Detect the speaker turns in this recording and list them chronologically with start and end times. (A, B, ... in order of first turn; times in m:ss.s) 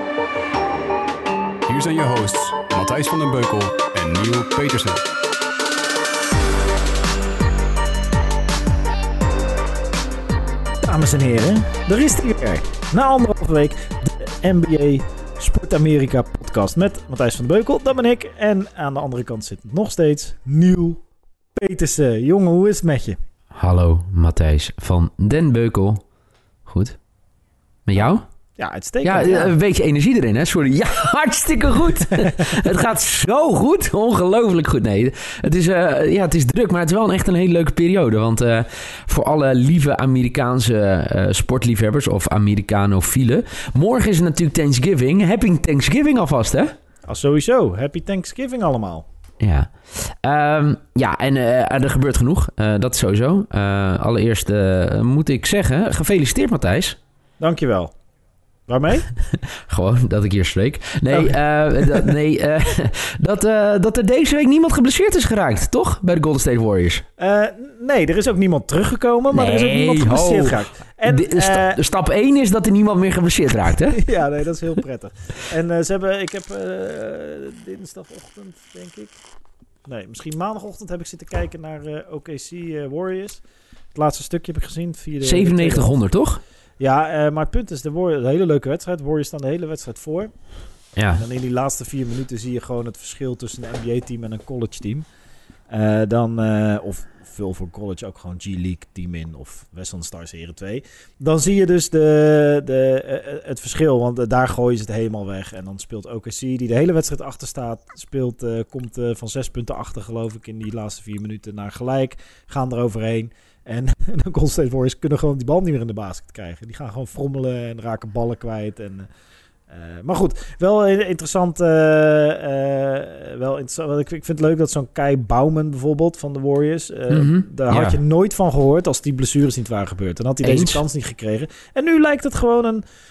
0:01.7-0:05.0 A
0:10.8-0:21.0 B
0:21.6-0:23.2 B
0:23.5-0:26.0 C
0:26.6-0:27.0 C
0:27.9-0:28.2 C
0:28.0-0:29.5 B
0:29.0-0:46.7 C
0:47.1-0:49.1 B
0:49.4-0:57.0 C
0:57.4-0:57.9 B
0:58.7-0:59.1 B
0:59.3-1:07.0 C
1:01.1-1:02.2 B
1:07.2-1:11.8 B
1:09.3-1:14.0 C
1:14.0-1:19.2 B
1:19.9-1:23.4 B
1:23.9-1:26.0 B
1:25.2-1:26.4 C
1:26.8-1:30.5 B
1:31.0-1:31.2 C
1:31.2-1:35.1 B
1:35.7-1:59.1 B
1:59.7-2:12.8 B
2:07.1-2:08.0 C
2:10.4-2:10.8 C